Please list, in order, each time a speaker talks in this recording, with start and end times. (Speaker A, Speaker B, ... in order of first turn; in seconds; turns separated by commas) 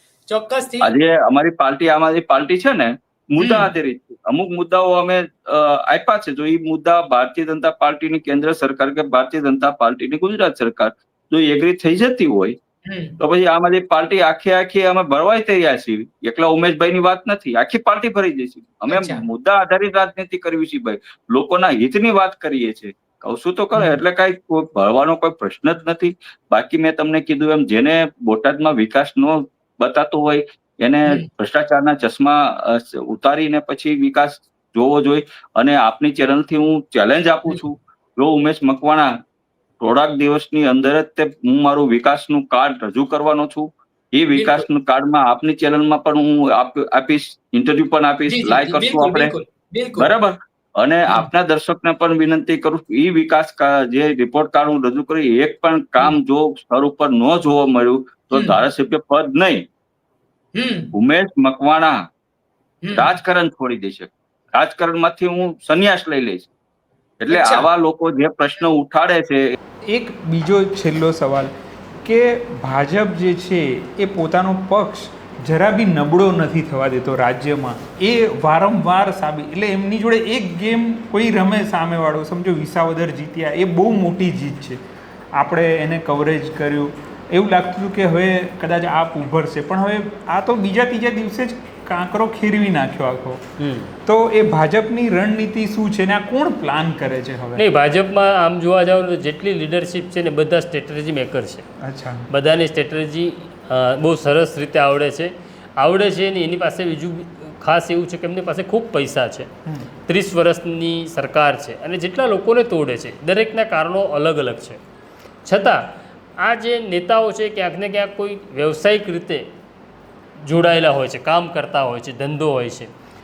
Speaker A: 0.3-0.9, Speaker B: 0.8-12.6, Speaker A: 3.4-3.7, Speaker A: 12.8-13.2, Speaker B: 13.2-39.1, Speaker A: 18.9-19.2, Speaker B: 39.8-49.3, Speaker A: 44.3-44.6, Speaker A: 48.3-50.1, Speaker B: 50.0-59.6, Speaker A: 58.3-58.6, Speaker A: 60.5-60.9, Speaker B: 60.9-62.0, Speaker A: 62.8-63.1, Speaker B: 62.9-66.5, Speaker B: 67.2-69.5, Speaker A: 67.3-67.7, Speaker C: 69.9-71.5, Speaker C: 72.0-84.8, Speaker C: 85.3-93.4, Speaker D: 93.6-93.9, Speaker C: 94.0-97.6, Speaker D: 97.6-101.7, Speaker C: 101.8-102.3, Speaker D: 102.3-109.5, Speaker D: 110.1-114.8, Speaker D: 115.5-115.8, Speaker D: 116.4-119.5, Speaker D: 120.5-122.9